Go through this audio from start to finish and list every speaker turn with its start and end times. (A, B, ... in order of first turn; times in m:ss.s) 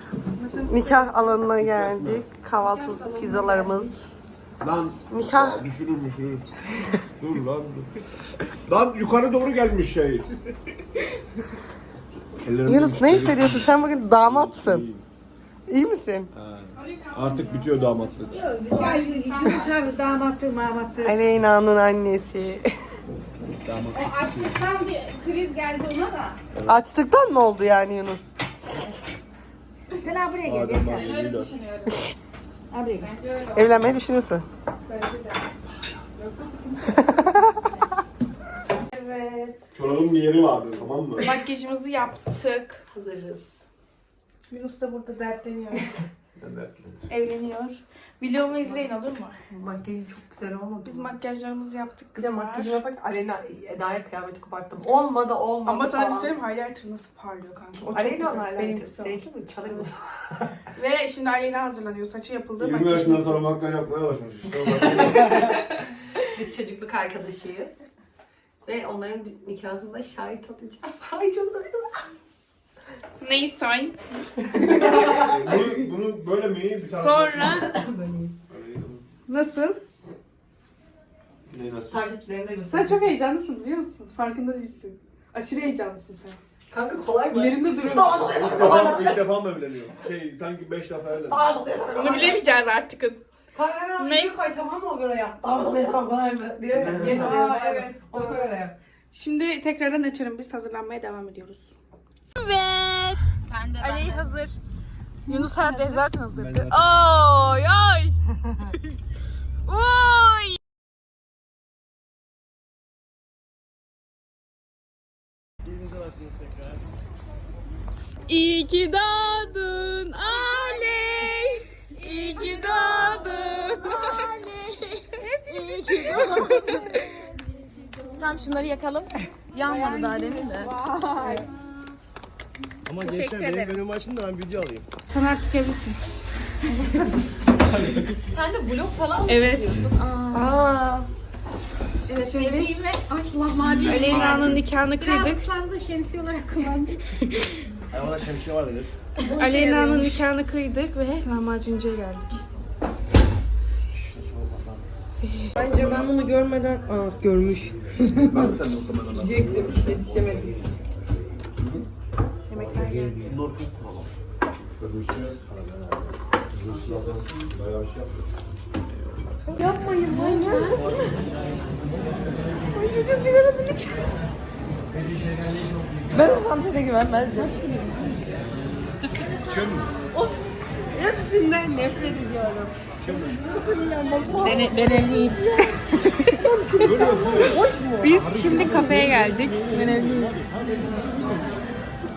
0:00.4-0:01.4 A
0:00.7-0:04.0 B
0:01.5-0:02.3 C
0:02.5-0:03.9 A
0:02.8-0:03.2 D
0:04.6-0:06.5 C
0:05.1-0:05.6 B
0:07.0-0:07.9 C
0:08.7-0:10.3 C
0:12.4-0:15.0 C
0:12.7-0:14.8 B
0:15.7-0:16.3 B
0:16.3-0:18.5 C
0:16.8-0:19.9 A
0:18.3-0:20.0 D
0:18.7-0:19.7 B
0:20.6-0:21.2 A
0:21.0-0:22.6 B
0:23.6-0:24.8 C
0:23.9-0:26.4 D
0:26.5-0:26.8 C
0:26.7-0:28.2 B
0:30.0-0:30.7 B
0:30.4-0:31.6 C
0:30.8-0:32.0 D
0:32.8-0:33.0 B
0:33.0-0:34.0 D
0:33.6-0:34.4 B
0:34.9-0:35.4 A
0:36.2-0:37.4 A
0:38.9-0:39.7 A
0:39.8-0:41.3 C
0:41.2-0:42.8 A
0:42.9-0:43.6 B
0:44.5-0:45.9 A
0:46.4-0:47.0 C
0:47.1-0:49.4 A
0:49.5-0:51.1 B
0:50.8-0:52.8 A
0:52.2-0:56.3 B
0:55.7-0:59.2 A
0:57.9-1:00.5 B
1:00.8-1:03.5 A
1:02.6-1:05.6 C
1:05.0-1:05.4 B
1:06.2-1:07.8 B
1:08.6-1:11.9 B
1:13.2-1:15.2 A
1:14.5-1:15.4 B
1:14.7-1:17.6 C
1:16.8-1:17.7 A
1:17.7-1:18.3 B
1:18.5-1:19.0 C
1:19.3-1:19.8 A
1:21.5-1:22.1 C
1:21.9-1:23.1 B
1:22.7-1:26.4 A
1:26.7-1:29.5 B
1:28.2-1:31.5 C
1:31.3-1:32.5 B
1:32.0-1:33.2 A
1:33.5-1:38.8 B
1:34.0-1:34.5 A
1:36.7-1:37.5 C
1:37.0-1:38.5 A
1:39.1-1:41.8 A
1:42.4-1:44.6 A
1:43.5-1:44.3 D
1:45.3-1:46.1 D
1:45.3-1:48.2 A
1:46.4-1:47.0 C
1:49.7-1:50.6 A
1:55.6-1:57.0 E
1:58.3-2:07.1 A
2:00.5-2:00.9 D
2:02.0-2:03.1 D
2:05.2-2:07.1 D
2:08.2-2:10.7 A
2:09.5-2:11.5 D
2:12.8-2:14.9 E
2:13.0-2:13.8 D
2:15.1-2:16.0 A
2:17.6-2:18.4 C
2:18.5-2:20.6 D
2:19.3-2:19.9 A
2:20.3-2:21.1 B
2:22.1-2:22.8 A
2:22.1-2:27.0 D
2:23.7-2:24.6 C
2:23.8-2:25.5 A
2:27.1-2:27.6 A
2:27.9-2:29.0 E
2:29.3-2:30.2 D
2:29.4-2:32.4 A
2:33.9-2:34.9 E
2:35.2-2:35.5 A
2:35.6-2:38.5 B
2:35.6-2:36.1 C
2:38.2-2:40.7 C
2:39.1-2:40.6 B
2:41.6-2:41.9 C
2:42.5-2:43.2 A
2:42.5-2:43.4 E
2:43.2-2:44.1 C
2:44.8-2:45.4 C
2:45.4-2:46.1 E
2:46.5-2:48.3 C
2:49.5-2:51.2 B
2:50.1-2:50.9 D
2:52.7-2:54.1 B
2:56.1-2:57.7 B
2:57.3-2:58.5 D
2:59.2-2:59.9 C
3:00.1-3:00.4 B
3:00.9-3:09.0 B
3:03.0-3:03.4 C
3:04.4-3:05.5 D
3:05.6-3:06.4 A
3:06.8-3:11.5 C
3:07.4-3:09.7 A
3:09.7-3:11.1 B
3:09.8-3:10.4 D